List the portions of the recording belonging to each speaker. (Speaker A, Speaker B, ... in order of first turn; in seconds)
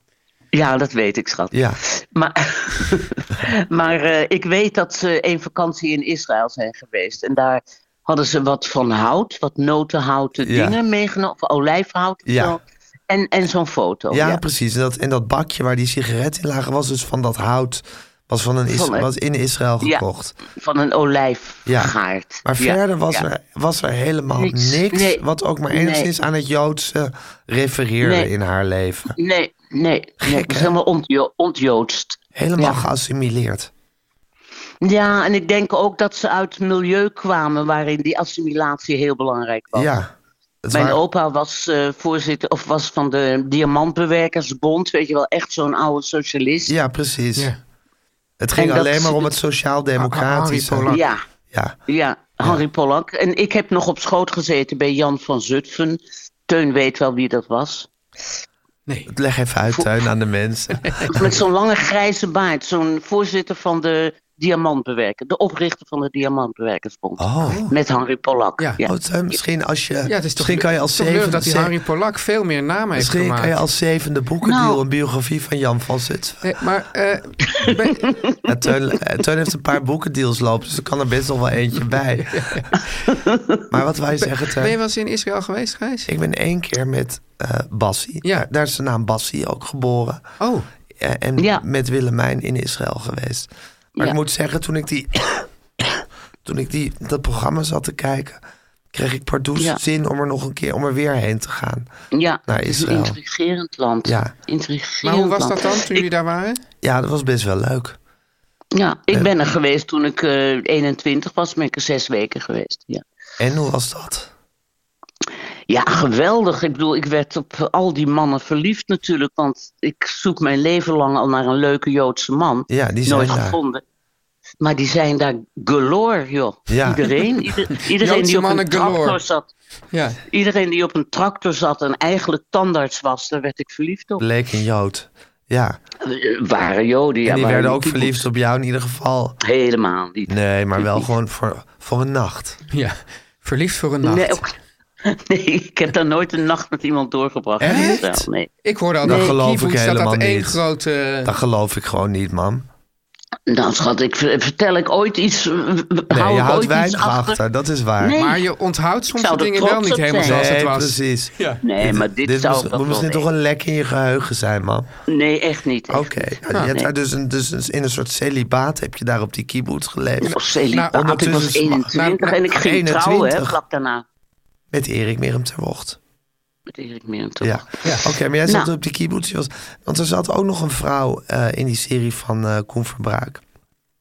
Speaker A: 0.5-14.4, 18.7-19.1, 19.8-23.2, 24.4-26.1, 28.0-28.3, 29.1-32.8, 34.8-39.9, 40.7-46.7, 48.6-49.4, 50.9-51.2, 51.9-57.9, 61.1-68.9, 74.4-74.8, 77.7-78.5, 83.1-83.7, 91.4-91.6, 102.1-106.0, 108.8-113.0, 115.7-123.8, 124.6-129.5, 130.3-134.2, 136.0-138.3, 139.4-141.1, 144.0-144.5, 145.0-148.5, 149.0-149.3, 153.5-157.4, 158.0-158.4, 159.2-160.5, 161.6-163.3, 165.1-166.9, 170.2-174.0, 176.7-177.7, 178.4-178.7
Speaker B: 1.5-1.8, 10.4-10.8, 12.3-12.6, 14.1-20.4, 21.7-29.1, 30.2-30.7, 32.3-33.7, 39.7-40.1, 40.6-41.0, 46.7-47.5, 48.4-51.0, 51.5-51.8, 59.1-61.4, 67.2-67.7, 68.8-71.7, 73.0-76.4, 78.5-82.6, 83.7-84.8, 86.1-90.2, 91.0-98.4, 98.9-101.9, 102.5-103.2, 104.1-104.3, 106.8-108.0, 113.4-114.3, 122.7-123.6, 126.7-127.1, 134.2-135.8, 137.2-139.4, 140.3-142.6, 147.6-148.3, 149.0-150.6, 151.2-152.7, 156.1-158.2, 160.2-164.9, 165.9-173.6, 174.7-176.0, 177.4-183.4
Speaker C: 50.0-51.0, 60.8-61.1, 67.5-67.7, 68.6-68.8, 70.1-73.6, 76.4-78.1, 82.3-82.9, 84.2-86.1, 90.4-90.7, 105.0-106.6, 127.9-129.2, 129.9-130.2, 142.7-144.4, 147.6-148.0, 148.6-151.3, 158.2-161.6, 170.7-171.1, 171.9-172.4